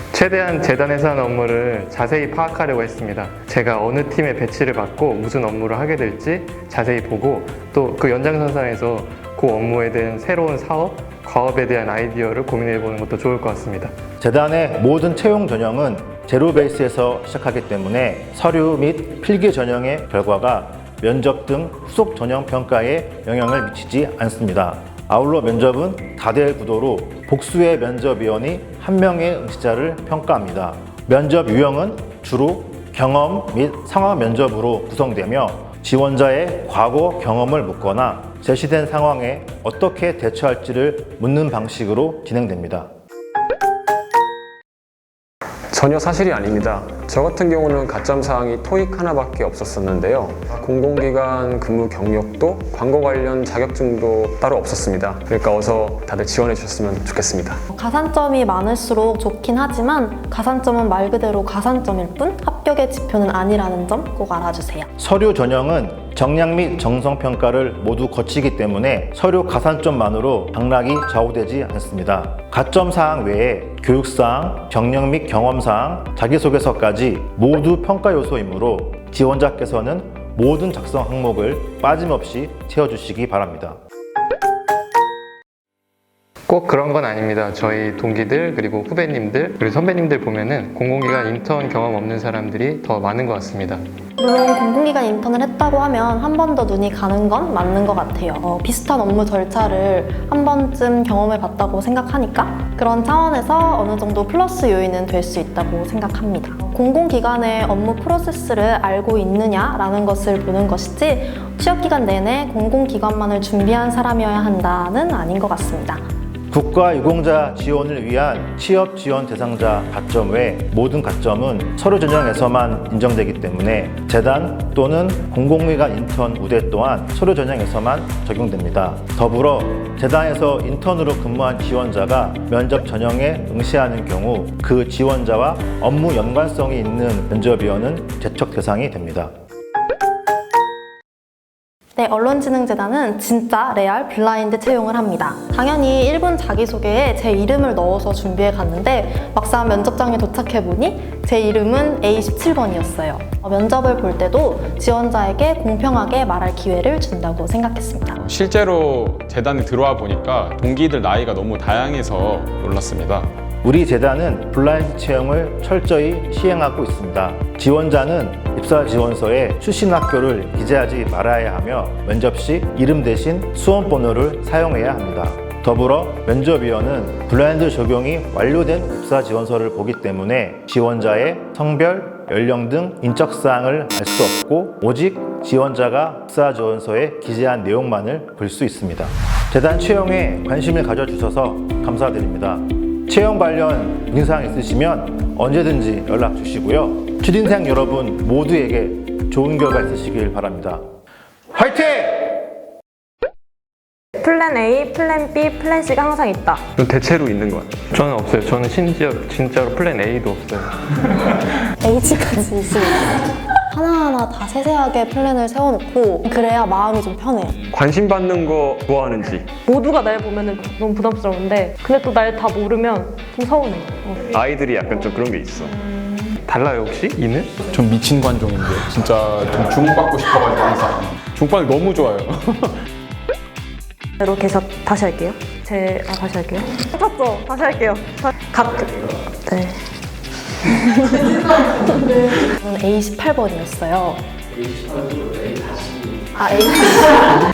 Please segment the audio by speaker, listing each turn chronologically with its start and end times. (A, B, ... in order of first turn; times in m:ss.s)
0:00.1-0:13.9 A
0:14.2-0:42.9 B
0:45.7-0:57.6 C
0:57.7-1:04.9 D
1:05.0-1:23.8 B
1:26.5-1:33.8 A
1:34.2-1:56.0 D
1:56.5-2:19.3 B
2:22.0-2:38.2 D
2:38.2-2:43.3 E
2:43.6-3:20.8 B
3:21.5-3:22.4 B
3:24.2-3:26.6 F
3:26.8-3:27.8 C
3:27.9-3:30.8 A
3:31.8-3:33.2 D
3:33.7-3:37.5 D
3:37.7-3:39.5 C
3:39.6-3:44.2 F
3:44.3-3:45.9 C
3:46.2-3:47.5 A
3:47.7-3:52.8 E
3:54.2-3:59.8 F
4:00.6-4:01.5 F
4:02.4-4:04.2 D
4:06.3-4:07.3 D